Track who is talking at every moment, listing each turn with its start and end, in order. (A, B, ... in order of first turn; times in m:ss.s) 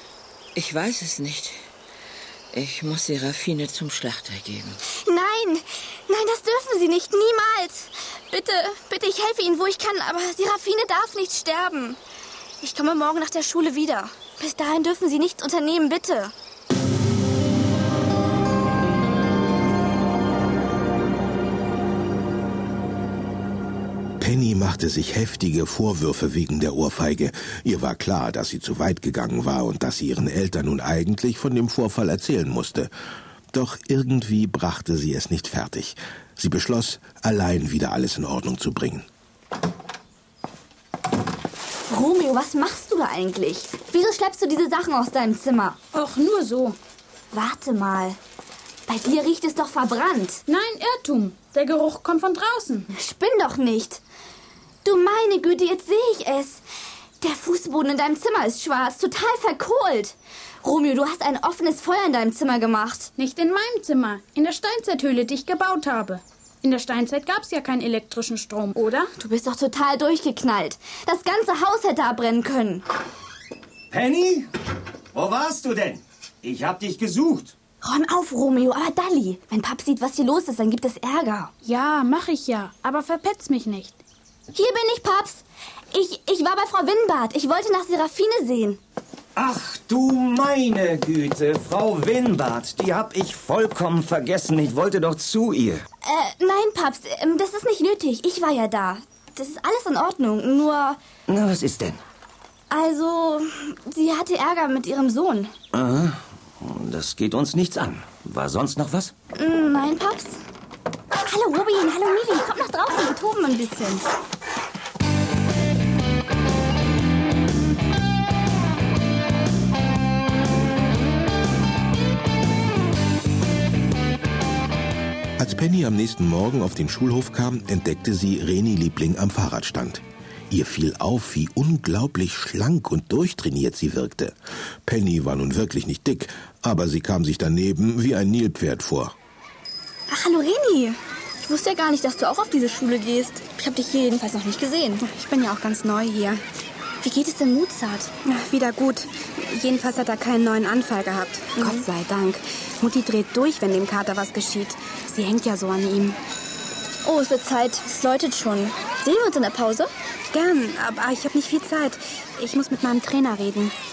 0:00.5-0:01.5 A
0:02.5-0:04.8 A
0:04.9-0:12.0 B
0:12.6-0:16.3 B
0:24.2-0:32.9 C
0:33.5-0:39.0 C
0:41.9-0:45.8 B
0:45.9-0:46.8 D
0:47.3-0:48.2 B
0:48.9-0:50.4 B
0:50.5-0:52.9 D
0:52.9-0:54.0 B
0:54.8-0:56.6 B
0:57.2-1:03.1 B
1:03.2-1:09.1 D
1:09.2-1:12.8 B
1:13.9-1:14.5 E
1:15.1-1:17.5 E
1:17.8-1:21.5 B
1:21.6-1:24.0 D
1:24.5-1:28.8 B
1:29.4-1:35.8 E
1:36.0-1:41.0 B
1:41.3-1:42.0 E
1:42.7-1:45.5 B
1:45.7-1:49.1 E
1:49.3-1:50.4 B
1:51.2-1:54.0 B
2:05.4-2:19.1 C
2:20.1-2:25.0 B
2:25.0-2:26.4 F
2:27.0-2:28.1 B
2:28.2-2:36.2 F
2:31.6-2:31.9 B
2:37.0-2:39.9 B
2:40.3-2:43.7 F